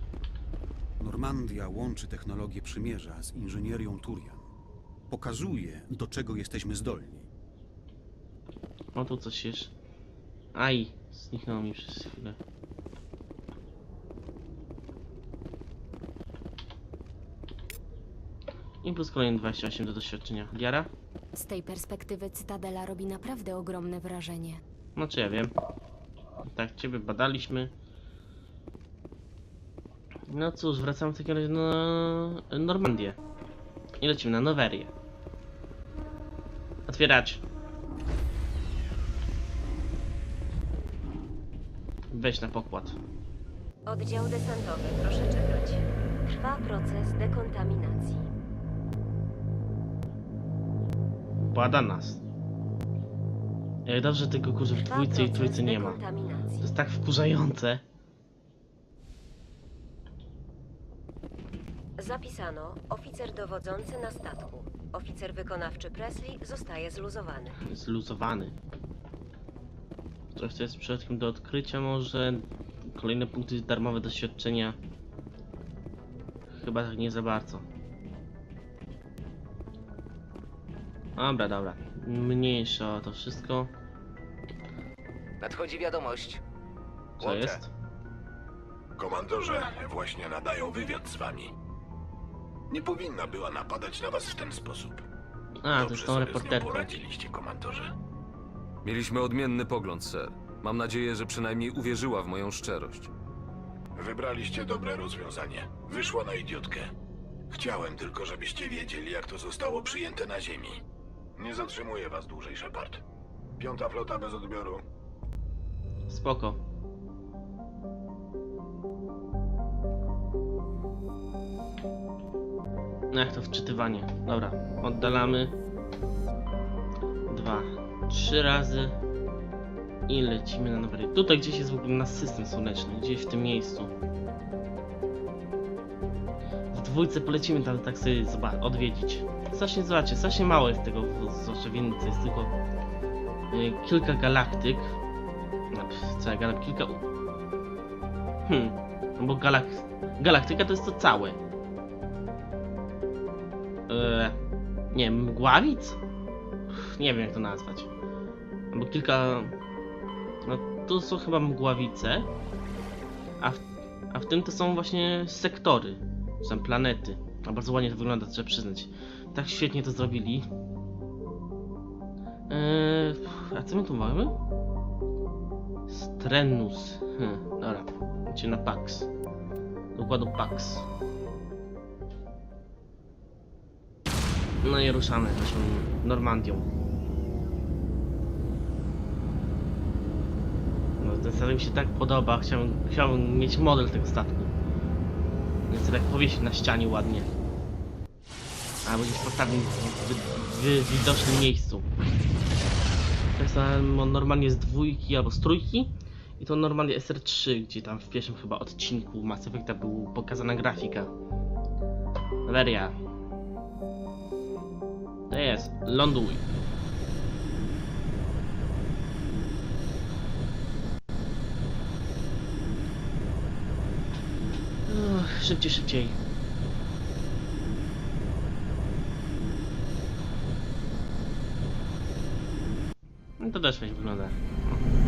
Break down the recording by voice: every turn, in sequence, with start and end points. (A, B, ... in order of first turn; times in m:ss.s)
0:01.0-0:04.5 A
0:05.1-0:07.3 A
0:09.0-0:09.7 B
0:10.6-0:12.4 B
0:18.8-0:20.9 B
0:21.4-0:24.6 C
0:25.0-0:25.5 B
0:26.4-0:27.7 B
0:30.3-0:33.2 B
0:34.0-0:34.9 B
0:36.9-0:37.4 B
0:42.1-0:43.0 B
0:43.9-0:48.3 D
0:51.4-0:52.2 B
0:53.8-0:56.0 B
0:54.8-0:56.6 D
0:56.6-0:57.8 B
1:02.0-1:07.6 D
1:07.6-1:08.5 B
1:10.4-1:14.8 B
1:16.5-1:17.6 B
1:21.2-1:23.7 B
1:25.5-1:26.3 E
1:27.2-1:27.7 B
1:29.0-1:31.5 E
1:32.7-1:35.0 E
1:35.6-1:37.0 B
1:35.7-1:37.9 E
1:38.8-1:43.1 F
1:44.0-1:46.9 E
1:47.5-1:50.8 E
1:51.4-1:53.0 E
1:53.6-1:54.8 E
1:56.1-1:56.6 B
2:03.1-2:05.5 B
2:07.3-2:09.0 B
2:10.1-2:13.9 B
2:16.7-2:22.5 B
2:23.5-2:25.0 B
2:25.7-2:27.0 B
2:28.5-2:31.4 B
2:33.9-2:34.4 B
2:34.9-2:36.0 B
2:36.7-2:37.9 B
2:38.7-2:39.6 B
2:40.4-2:42.3 B
2:43.4-2:50.5 B
2:52.5-2:54.4 B
2:55.9-2:59.1 B
2:59.9-3:00.9 B
3:04.6-3:06.7 B
3:11.0-3:14.5 B
3:15.7-3:17.3 B
3:18.8-3:21.9 B
3:23.4-3:31.1 B
3:32.5-3:33.0 B
3:35.3-3:36.5 B
3:44.9-3:46.2 B
3:53.4-3:54.8 B